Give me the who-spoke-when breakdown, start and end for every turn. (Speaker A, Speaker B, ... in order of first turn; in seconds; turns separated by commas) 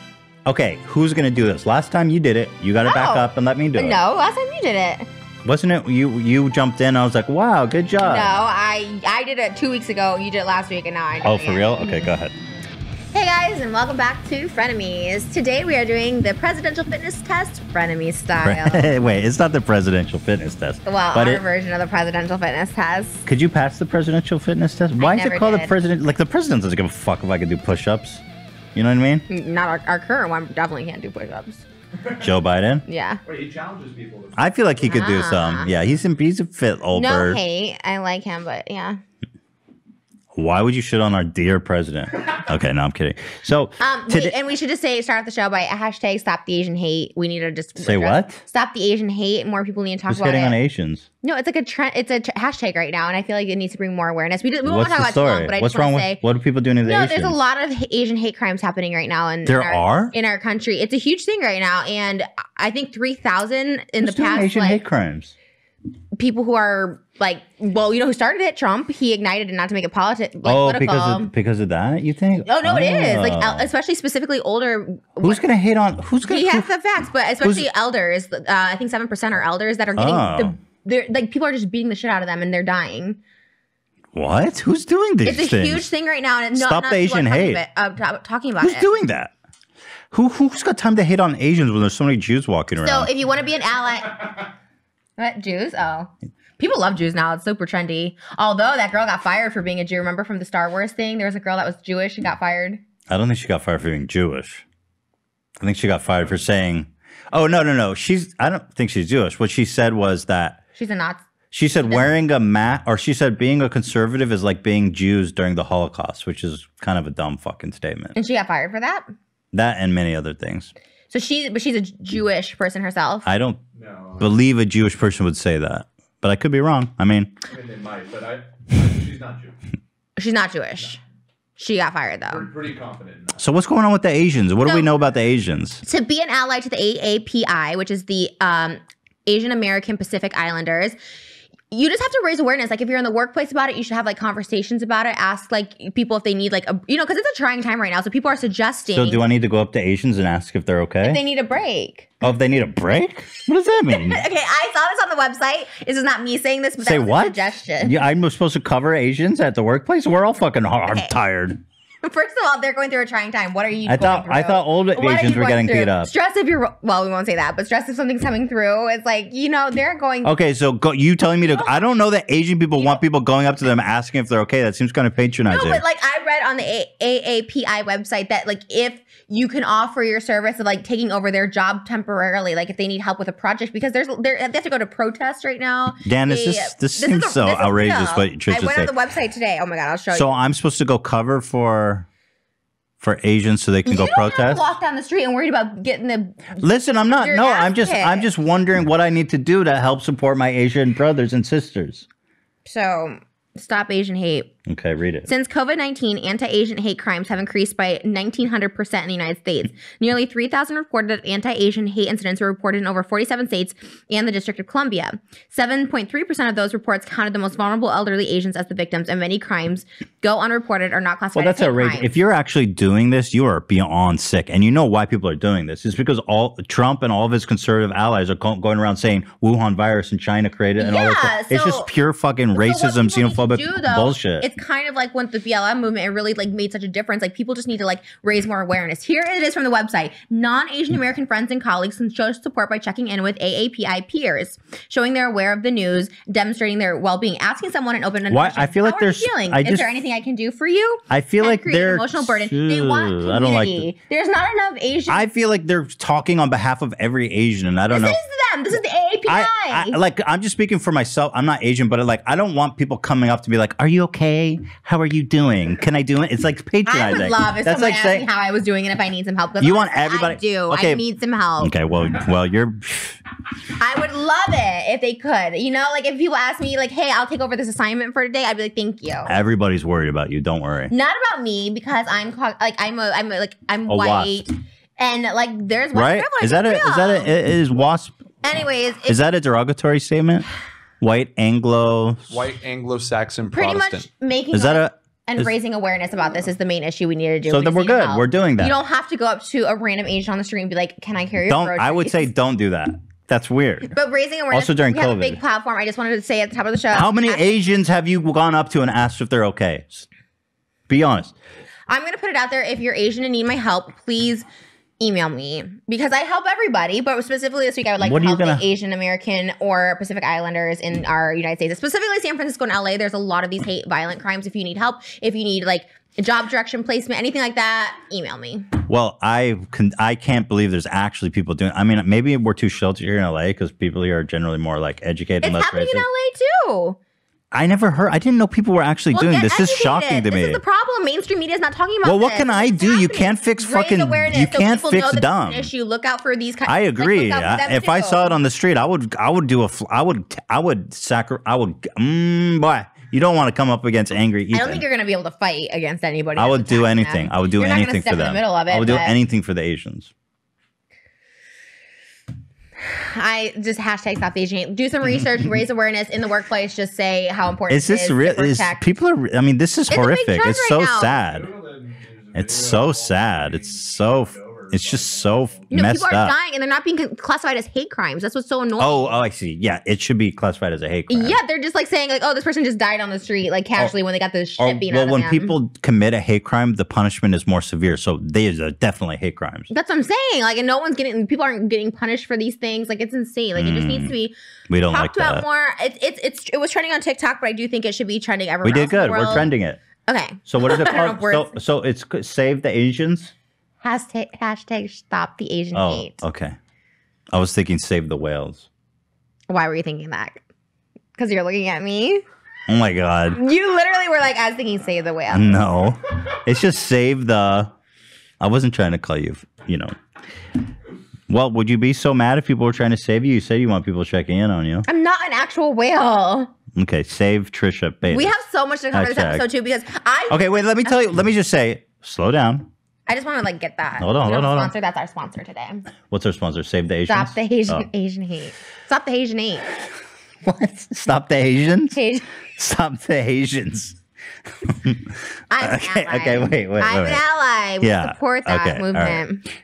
Speaker A: 0.5-4.0, Speaker B: 2.8-5.1, Speaker A: 5.4-8.3, Speaker B: 8.0-12.1, Speaker A: 11.2-12.3, Speaker B: 13.1-18.9, Speaker A: 18.4-21.4, Speaker B: 20.9-23.2, Speaker A: 23.2-28.2, Speaker B: 25.0-25.7, Speaker A: 28.7-29.2, Speaker B: 29.3-31.6, Speaker A: 32.2-32.8, Speaker B: 32.9-33.2, Speaker C: 33.2-34.5, Speaker A: 34.4-37.4, Speaker B: 34.8-35.7, Speaker B: 36.9-39.0, Speaker A: 40.3-44.3, Speaker B: 43.8-50.6, Speaker A: 47.8-48.4, Speaker A: 50.1-51.0, Speaker B: 51.2-56.2, Speaker A: 54.6-57.4, Speaker B: 56.8-64.8, Speaker A: 59.4-60.1, Speaker A: 64.0-65.3, Speaker B: 66.1-71.3, Speaker A: 70.4-73.7, Speaker B: 72.5-75.4, Speaker A: 75.2-76.7, Speaker B: 76.2-83.2, Speaker A: 77.4-77.7, Speaker A: 80.0-80.6, Speaker A: 84.1-85.9, Speaker B: 85.2-88.9, Speaker A: 86.5-87.6, Speaker A: 88.6-89.3, Speaker A: 90.1-93.1, Speaker B: 92.7-94.4, Speaker B: 95.2-102.8, Speaker A: 103.1-104.6, Speaker A: 105.6-110.6, Speaker B: 110.8-111.2, Speaker A: 111.5-118.1, Speaker B: 118.1-119.1, Speaker A: 119.5-120.7, Speaker B: 121.1-123.3, Speaker A: 123.2-123.6, Speaker C: 123.7-124.3, Speaker A: 124.2-127.3, Speaker C: 127.5-129.5, Speaker B: 130.2-131.0, Speaker B: 131.6-132.4, Speaker C: 132.3-133.4, Speaker A: 133.4-135.8, Speaker B: 135.8-141.0, Speaker B: 141.7-149.3, Speaker A: 148.9-151.2, Speaker B: 151.0-152.1, Speaker A: 152.2-154.2, Speaker B: 153.9-157.9, Speaker A: 156.8-161.6, Speaker B: 162.0-170.3, Speaker A: 163.8-166.1, Speaker A: 170.2-175.8, Speaker B: 171.5-171.8, Speaker B: 175.5-190.3, Speaker A: 186.0-188.9, Speaker A: 190.1-192.1, Speaker A: 193.0-194.6, Speaker B: 193.8-196.6, Speaker A: 196.6-202.1, Speaker B: 197.2-198.3, Speaker B: 202.6-204.5, Speaker A: 204.7-205.3, Speaker B: 205.3-222.1, Speaker A: 221.3-234.4, Speaker B: 230.8-231.9, Speaker B: 232.5-255.2, Speaker A: 248.3-249.9, Speaker A: 251.1-253.9, Speaker A: 255.1-258.2, Speaker B: 257.9-260.0, Speaker A: 259.3-268.3, Speaker B: 266.9-271.7, Speaker A: 269.6-271.0, Speaker A: 271.6-273.2, Speaker B: 273.8-279.3, Speaker A: 279.2-280.9, Speaker B: 280.9-287.3, Speaker A: 283.9-284.4, Speaker A: 285.9-288.1, Speaker B: 288.4-289.2, Speaker A: 289.1-290.4, Speaker A: 291.0-292.3, Speaker C: 292.3-294.1, Speaker B: 293.5-302.3, Speaker A: 294.5-295.5, Speaker A: 297.5-298.8, Speaker A: 301.4-303.9, Speaker B: 303.9-307.5, Speaker A: 304.5-305.4, Speaker A: 306.9-310.1, Speaker A: 310.9-311.3, Speaker B: 311.9-314.4, Speaker B: 315.0-328.7, Speaker A: 318.0-318.6, Speaker A: 328.9-336.1, Speaker B: 335.4-337.0, Speaker A: 337.5-340.6, Speaker B: 339.1-348.3, Speaker A: 342.0-345.7, Speaker A: 346.6-354.8, Speaker B: 354.5-359.1, Speaker A: 356.4-360.1, Speaker B: 362.8-368.8, Speaker A: 367.7-371.5, Speaker B: 369.9-371.1, Speaker C: 371.1-375.7, Speaker A: 372.4-376.3, Speaker B: 375.7-379.1, Speaker A: 378.8-381.4, Speaker B: 381.1-385.5, Speaker A: 384.6-389.7, Speaker B: 389.7-394.3, Speaker A: 393.6-394.1, Speaker A: 394.7-395.4, Speaker B: 394.9-399.5, Speaker A: 398.6-399.8, Speaker B: 400.1-401.6, Speaker A: 400.5-403.3, Speaker B: 403.8-406.2, Speaker A: 405.7-406.6, Speaker A: 407.3-408.6, Speaker B: 409.5-410.4, Speaker B: 411.2-412.2, Speaker A: 412.7-413.4, Speaker B: 413.3-415.6, Speaker A: 415.3-417.7, Speaker A: 418.4-419.9, Speaker A: 421.3-424.8, Speaker B: 424.9-426.5, Speaker A: 426.7-428.3, Speaker B: 428.1-431.1, Speaker A: 428.9-429.4, Speaker A: 430.3-432.7, Speaker B: 433.1-435.9, Speaker A: 434.0-434.7, Speaker A: 436.1-437.9, Speaker B: 437.1-439.7, Speaker A: 440.4-442.0, Speaker B: 441.9-442.2, Speaker A: 442.6-444.0, Speaker A: 444.6-447.2, Speaker B: 445.5-449.4, Speaker A: 447.8-449.2